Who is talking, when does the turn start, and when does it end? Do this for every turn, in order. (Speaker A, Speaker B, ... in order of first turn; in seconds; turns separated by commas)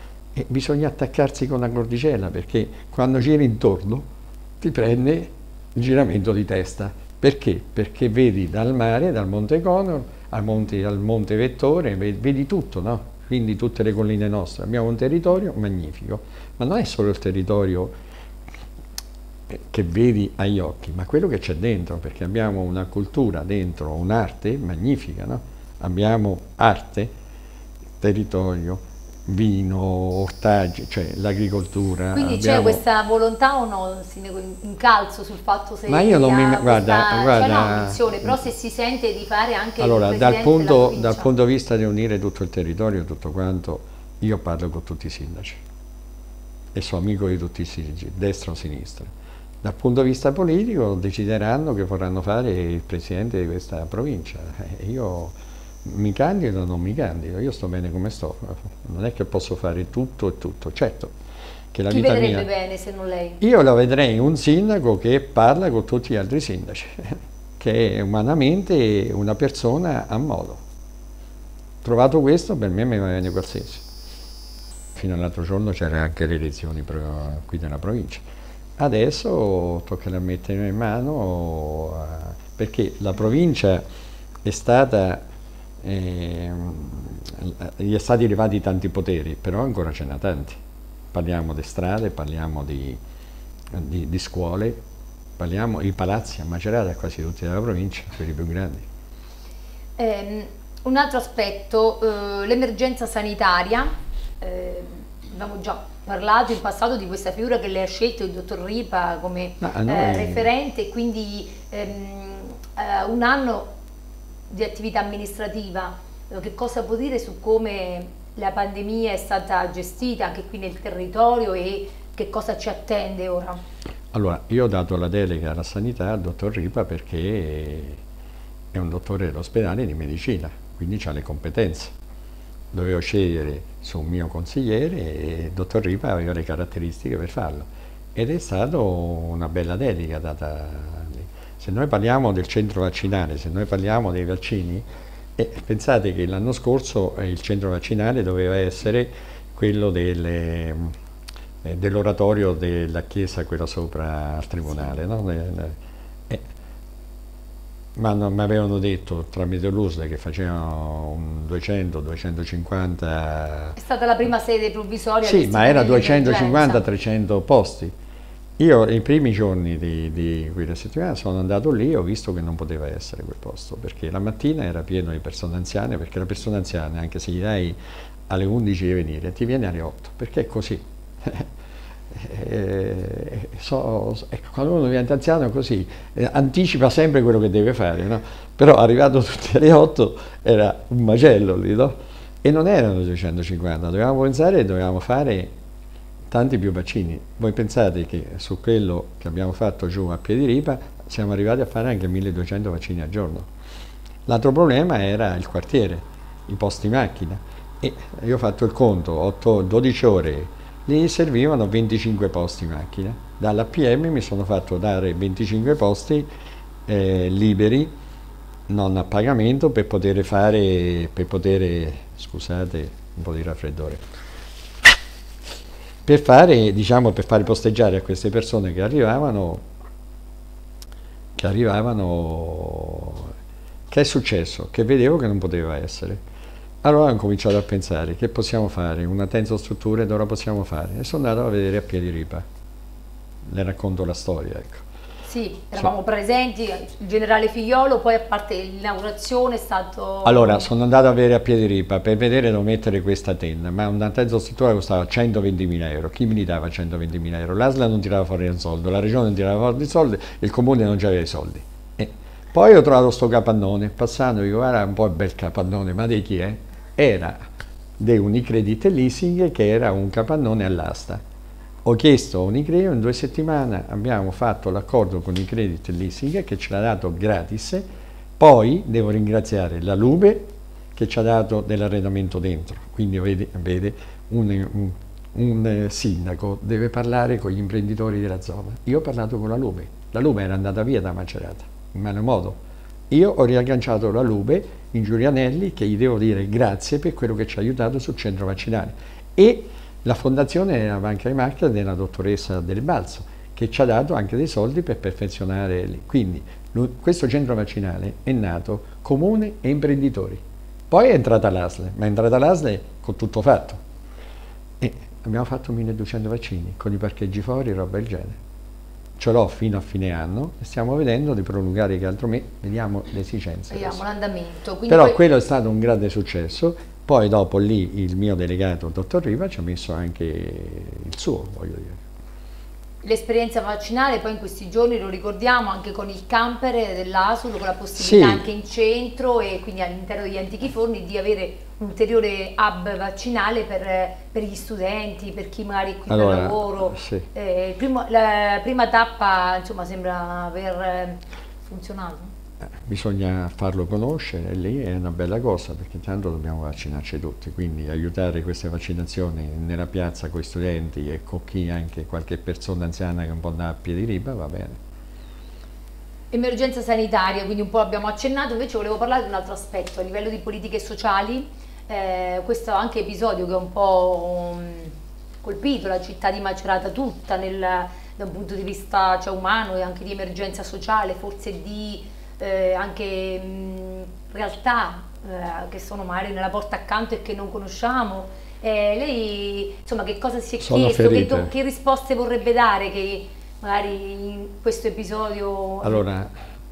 Speaker A: 0.3-4.1, Speaker A: 4.6-17.9, Speaker A: 19.5-27.1, Speaker A: 28.0-32.8, Speaker B: 32.1-41.3, Speaker A: 35.9-38.5, Speaker A: 39.8-45.6, Speaker A: 46.7-49.1, Speaker A: 49.6-55.3, Speaker A: 55.9-61.1, Speaker A: 61.7-62.5, Speaker B: 61.9-63.4, Speaker A: 63.4-70.6, Speaker A: 71.8-73.8, Speaker A: 75.0-78.2, Speaker A: 78.8-83.8, Speaker A: 84.4-85.2, Speaker A: 85.8-90.6, Speaker A: 91.1-93.0, Speaker A: 93.7-94.8, Speaker A: 95.4-98.8, Speaker B: 100.0-113.7, Speaker A: 109.6-110.5, Speaker B: 114.5-123.6, Speaker A: 124.1-128.0, Speaker A: 128.7-131.9, Speaker A: 132.7-144.9, Speaker A: 145.4-150.9, Speaker A: 151.6-155.8, Speaker A: 158.0-163.8, Speaker B: 163.8-166.8, Speaker A: 165.2-167.9, Speaker A: 168.6-177.8, Speaker A: 178.3-181.5, Speaker A: 182.1-195.5, Speaker A: 196.3-203.5, Speaker A: 204.3-216.3, Speaker A: 216.9-217.9, Speaker A: 218.7-224.0, Speaker A: 226.1-229.6, Speaker A: 231.4-233.3, Speaker A: 233.9-236.2, Speaker A: 236.8-242.4, Speaker A: 243.5-244.8, Speaker B: 245.2-250.7, Speaker A: 250.2-267.4, Speaker A: 268.0-271.2, Speaker A: 271.9-277.9, Speaker A: 278.4-292.6, Speaker A: 293.1-313.8, Speaker A: 314.8-318.4, Speaker A: 319.2-324.0, Speaker B: 323.7-325.2, Speaker A: 324.9-332.0, Speaker B: 333.0-352.3, Speaker A: 338.0-338.4, Speaker A: 346.1-347.3, Speaker A: 352.6-364.8, Speaker B: 366.3-396.1, Speaker A: 390.6-391.5, Speaker A: 395.8-396.3